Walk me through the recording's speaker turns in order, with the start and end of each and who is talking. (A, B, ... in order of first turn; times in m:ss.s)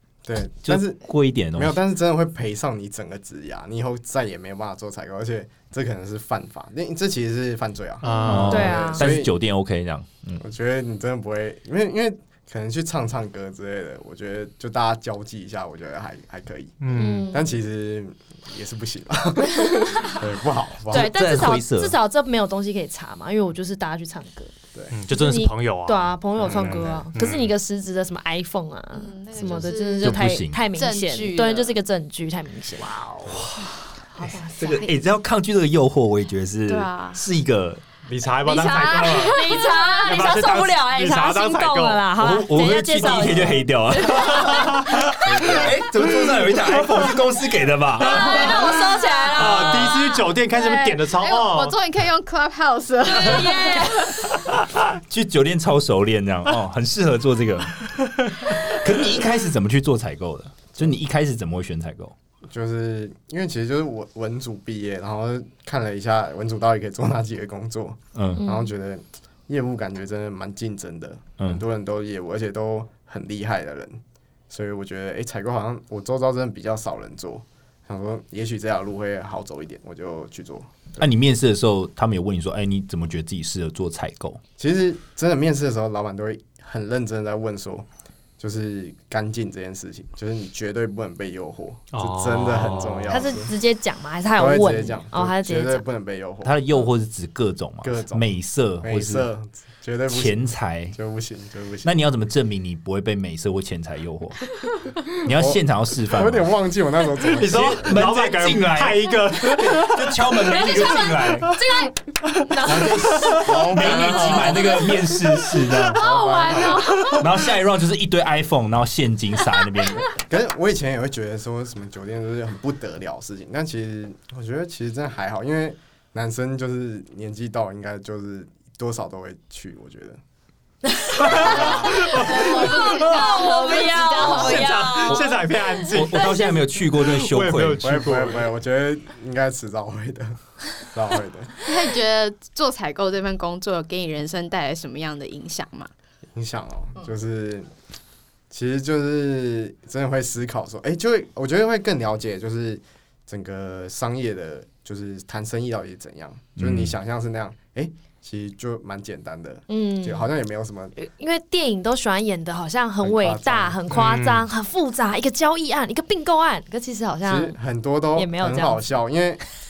0:00.2-0:09.3 A
0:00.6-0:01.8 B
0:08.0-0:08.8 C
0:08.1-0:08.4 D
0:08.2-0:10.4 B
0:08.4-0:09.0 E
0:10.4-0:21.2 A
0:16.8-0:17.3 C
0:16.9-0:17.6 E
0:19.4-0:20.2 E
0:20.9-0:24.5 E
0:20.9-0:22.0 B
0:24.9-0:27.5 C
0:25.1-0:33.0 E
0:26.4-0:27.1 A
0:28.9-0:31.8 D
0:30.0-0:30.7 B
0:33.2-0:33.7 B
0:34.2-0:35.0 D
0:34.6-0:37.8 B
0:36.7-0:37.2 D
0:38.1-0:42.0 C
0:38.5-0:45.2 E
0:38.6-0:40.3 D
0:42.2-0:48.6 B
0:45.3-0:45.7 A
0:48.0-0:50.3 E
0:48.1-0:48.7 C
0:48.4-0:49.0 D
0:49.3-0:51.8 C
0:49.6-0:54.3 D
0:53.1-0:54.2 E
0:54.8-1:02.2 B
1:02.5-1:21.0 A
1:08.2-1:08.4 B
1:08.4-1:08.7 E
1:21.0-1:24.4 B
1:24.6-1:27.9 A
1:28.4-1:33.5 A
1:31.9-1:33.2 C
1:33.1-1:35.8 E
1:34.4-1:36.6 A
1:36.4-1:39.3 B
1:37.8-1:38.3 A
1:38.8-1:41.9 A
1:40.1-1:41.0 B
1:41.8-1:44.4 B
1:45.1-1:46.5 B
1:45.3-1:48.1 A
1:47.3-1:50.2 C
1:47.5-1:51.6 B
1:50.5-1:51.9 E
1:52.4-1:53.4 E
1:52.5-1:56.0 B
1:52.7-1:55.0 A
1:54.0-1:54.8 E
1:55.8-1:57.3 D
1:55.9-1:56.9 A
1:57.1-2:00.2 B
2:00.2-2:10.2 A
2:10.8-2:16.7 E
2:11.2-2:13.2 C
2:11.3-2:11.8 A
2:11.4-2:15.1 D
2:14.2-2:18.5 C
2:15.1-2:18.0 B
2:17.8-2:21.6 A
2:21.6-2:25.9 D
2:26.3-2:27.7 A
2:28.5-2:41.0 A
2:36.6-2:37.0 B
2:39.7-2:40.3 E
2:41.0-2:47.6 E
2:43.0-2:43.8 A
2:43.9-2:44.5 C
2:47.2-2:49.4 A
2:48.2-2:48.8 E